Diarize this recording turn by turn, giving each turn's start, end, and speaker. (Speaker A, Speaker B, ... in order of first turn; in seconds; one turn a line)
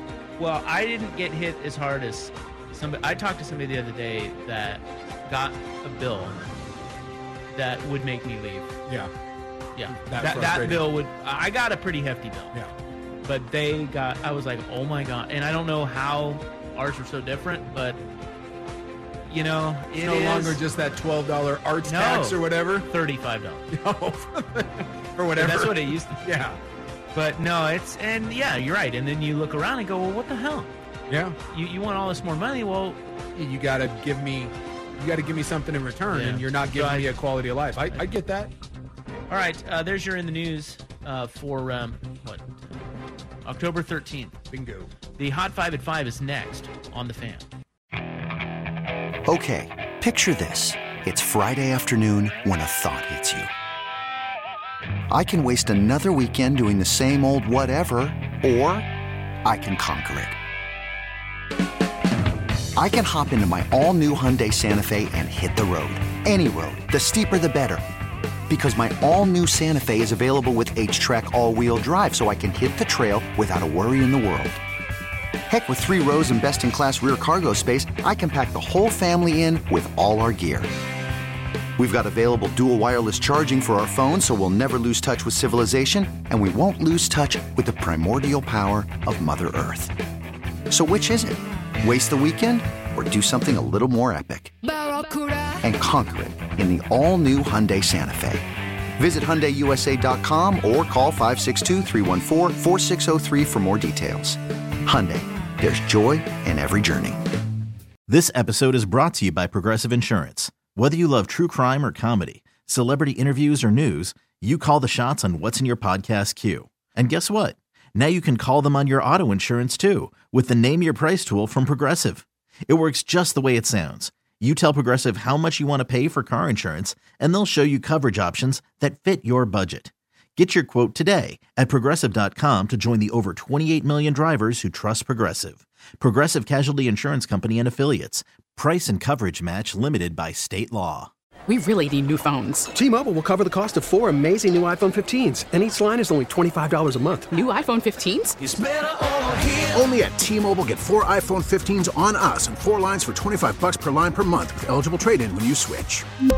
Speaker A: 0.4-6.4
Speaker A: 7.5-8.8
Speaker A: 9.7-12.6
Speaker B: 9.9-10.8
Speaker A: 13.2-18.0
Speaker A: 19.3-20.6
Speaker B: 19.9-22.9
Speaker A: 21.8-23.7
Speaker B: 23.7-26.6
Speaker A: 25.4-26.2
Speaker A: 27.1-30.7
Speaker B: 31.1-31.4
Speaker A: 31.5-33.0
Speaker B: 33.3-38.5
Speaker A: 36.1-37.1
Speaker A: 39.3-42.8
Speaker A: 43.4-44.4
Speaker B: 44.5-44.9
Speaker A: 45.2-47.5
Speaker C: 49.2-53.5
Speaker C: 55.1-58.9
Speaker C: 59.4-60.4
Speaker C: 62.8-67.8
Speaker C: 68.5-74.6
Speaker C: 75.5-80.7
Speaker C: 81.8-89.9
Speaker C: 90.7-94.5
Speaker C: 95.6-98.4
Speaker C: 99.0-107.2
Speaker D: 108.1-141.1
Speaker E: 141.5-142.7
Speaker F: 142.7-147.3
Speaker E: 147.3-148.4
Speaker G: 148.4-156.1